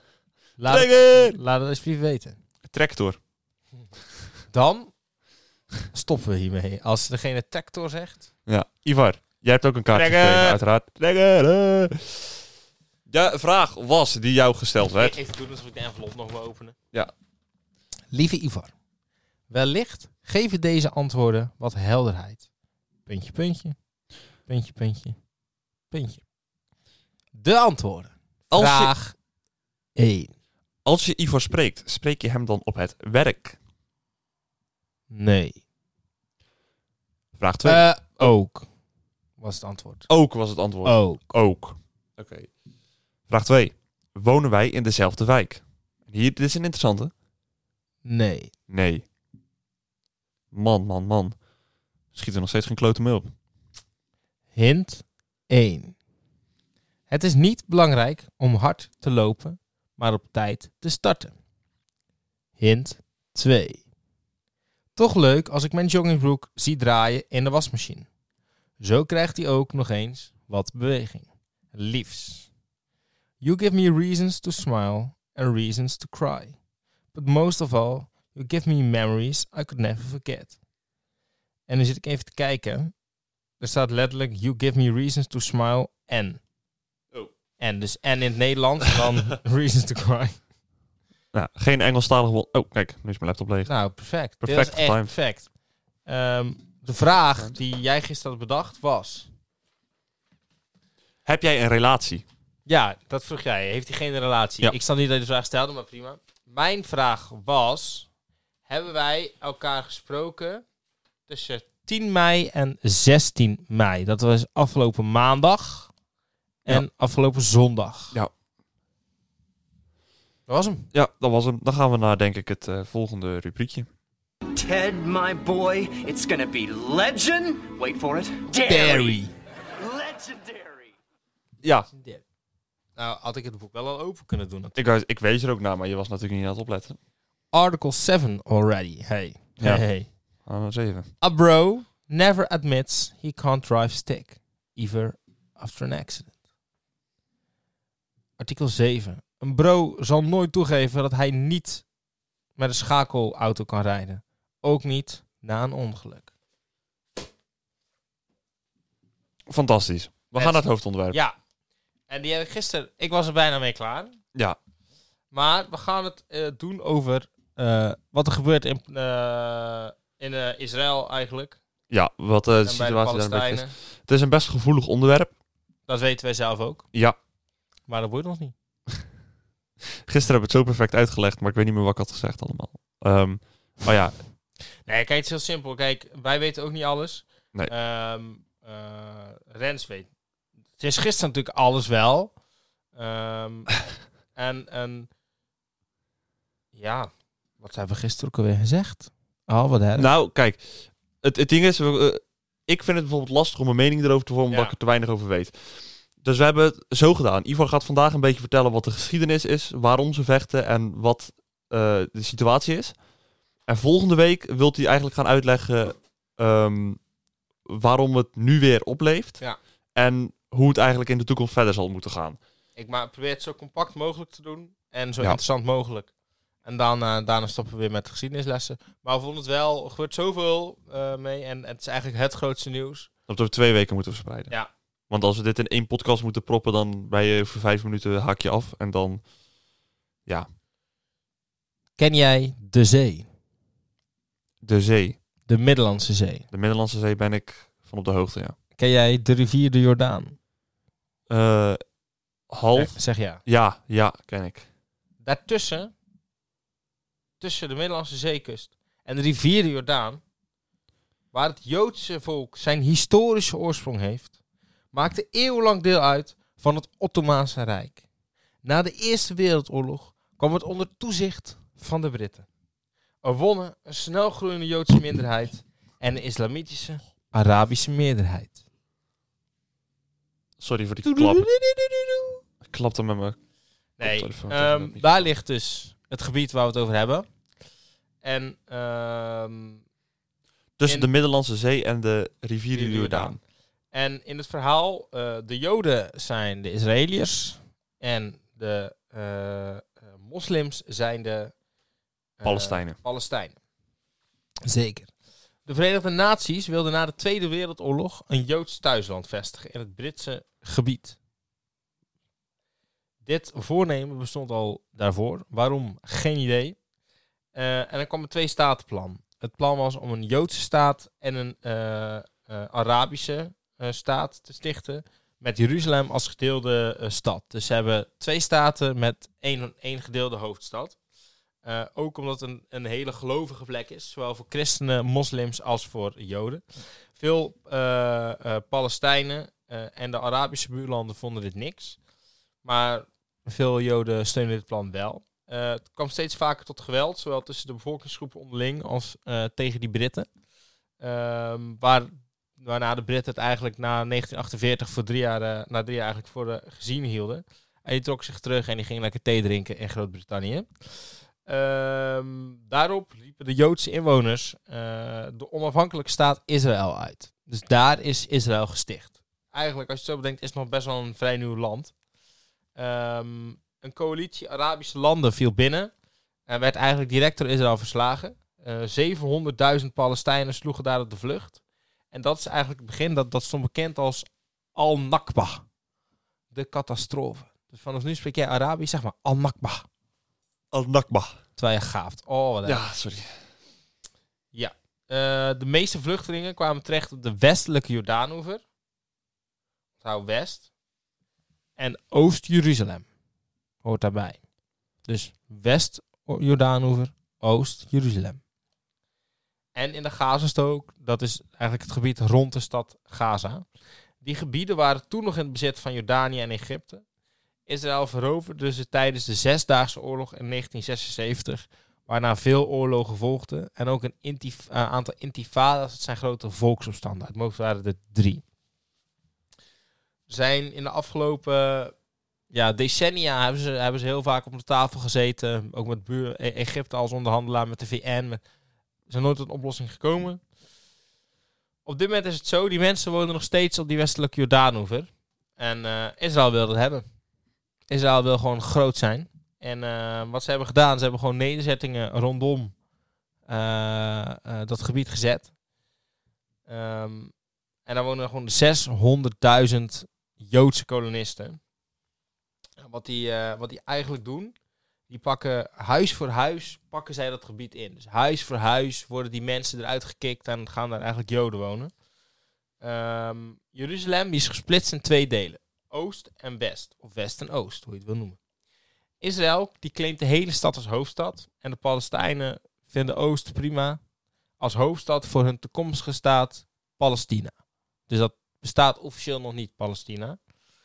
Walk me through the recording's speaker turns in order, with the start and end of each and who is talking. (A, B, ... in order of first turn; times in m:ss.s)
0:00.6-0:02.4 A
0:00.7-0:01.4 B
0:02.6-0:03.2 B
0:04.5-0:04.9 A
0:05.9-0:08.3 A
0:08.5-0:12.4 B
0:09.9-0:10.6 A
0:13.1-0:15.1 B
0:14.9-0:16.8 A
0:18.1-0:18.7 A
0:19.5-0:22.4 A
0:23.0-0:23.7 A
0:24.5-0:25.2 A
0:25.9-0:26.2 A
0:27.3-0:29.2 A
0:28.5-0:28.9 B
0:30.0-0:30.3 A
0:30.8-0:33.6 B
0:35.1-0:35.6 A
0:37.4-0:38.3 B
0:37.6-0:38.7 A
0:39.4-0:40.1 A
0:40.1-0:42.5 B
0:40.8-0:41.2 A
0:43.3-0:47.1 B
0:48.0-0:48.5 A
0:48.7-0:49.0 B
0:50.5-0:51.4 B
0:52.1-0:53.3 B
0:54.5-0:56.0 A
0:57.1-1:01.3 A
1:02.6-1:03.8 A
1:05.0-1:08.0 A
1:08.8-1:12.5 A
1:13.4-1:16.6 A
1:17.1-1:20.6 A
1:21.7-1:22.9 A
1:23.6-1:26.4 A
1:27.6-1:30.4 A
1:31.3-1:33.7 B
1:33.6-1:35.5 A
1:34.4-1:35.1 B
1:36.0-1:39.3 A
1:41.2-1:42.2 B
1:42.7-1:48.1 A
1:48.7-1:50.6 A
1:51.3-1:55.9 A
1:56.6-1:58.2 A
2:00.5-2:00.9 A
2:00.9-2:03.9 B
2:04.5-2:09.2 C
2:08.6-2:09.3 A
2:09.7-2:10.9 C
2:11.6-2:11.9 B
2:11.9-2:12.2 A
2:13.0-2:14.8 A
2:14.8-2:17.0 B
2:17.5-2:20.1 A
2:20.4-2:21.1 B
2:21.2-2:26.3 A
2:28.4-2:31.8 A
2:32.6-2:36.3 A
2:39.5-2:41.2 B
2:40.4-2:41.3 A
2:42.1-2:44.2 A
2:45.3-2:51.6 A
2:51.9-2:55.3 B
2:52.6-2:53.7 A
2:55.9-2:56.8 A
2:57.9-2:58.5 A
3:00.0-3:04.1 B
3:04.9-3:10.1 A
3:10.8-3:12.3 A
3:12.9-3:13.8 A
3:14.3-3:15.1 A
3:16.7-3:20.1 A
3:20.0-3:20.6 B
3:21.2-3:25.5 B
3:24.5-3:24.7 A
3:26.2-3:32.9 B
3:33.7-3:37.0 B
3:37.6-3:39.4 B
3:39.9-3:42.4 B
3:42.8-3:46.1 A
3:46.6-3:53.1 A
3:53.3-3:54.5 B
3:55.1-3:59.2 B
4:02.0-4:03.2 A
4:04.6-4:05.2 B
4:05.5-4:06.4 A
4:06.5-4:08.5 B
4:08.8-4:10.4 A
4:11.3-4:11.8 B
4:12.5-4:14.6 B
4:12.7-4:13.4 A
4:15.2-4:15.9 A
4:17.4-4:20.2 A
4:21.3-4:24.3 A
4:24.9-4:28.0 A
4:28.6-4:32.4 A
4:33.2-4:38.6 A
4:40.6-4:41.4 B
4:41.0-4:42.4 A
4:42.6-4:43.4 B
4:44.0-4:47.2 A
4:44.0-4:45.2 B
4:48.2-4:49.8 A
4:50.8-4:53.4 B
4:52.7-4:53.4 A
4:53.9-5:01.5 A
5:02.4-5:03.6 A
5:02.4-5:03.0 B
5:04.6-5:05.1 A
5:05.6-5:11.2 A
5:13.2-5:16.8 A
5:17.5-5:31.0 A
5:31.6-5:36.6 A
5:37.1-5:42.0 A
5:42.6-5:50.3 A
5:51.0-6:00.7 A
6:01.4-6:11.9 A
6:12.8-6:15.9 A
6:16.5-6:21.6 A
6:22.1-6:25.6 A
6:26.5-6:29.9 A
6:30.7-6:31.4 B
6:31.6-6:32.8 A
6:32.6-6:33.4 B
6:34.5-6:38.6 A
6:40.0-6:40.7 A
6:41.8-6:43.1 A
6:43.8-6:44.4 A
6:45.0-6:48.4 A
6:49.7-6:53.6 A
6:54.2-6:57.0 A
6:57.7-7:08.4 A
7:10.3-7:11.9 A
7:12.5-7:18.4 A
7:19.1-7:20.4 A
7:21.8-7:27.0 A
7:27.9-7:32.7 A
7:33.5-7:35.5 A
7:36.7-7:37.3 A
7:37.8-7:41.6 A
7:42.8-7:44.5 A
7:45.1-7:51.9 A
7:52.8-7:58.4 A
7:59.2-8:04.0 A
8:04.6-8:07.5 A
8:08.1-8:10.4 A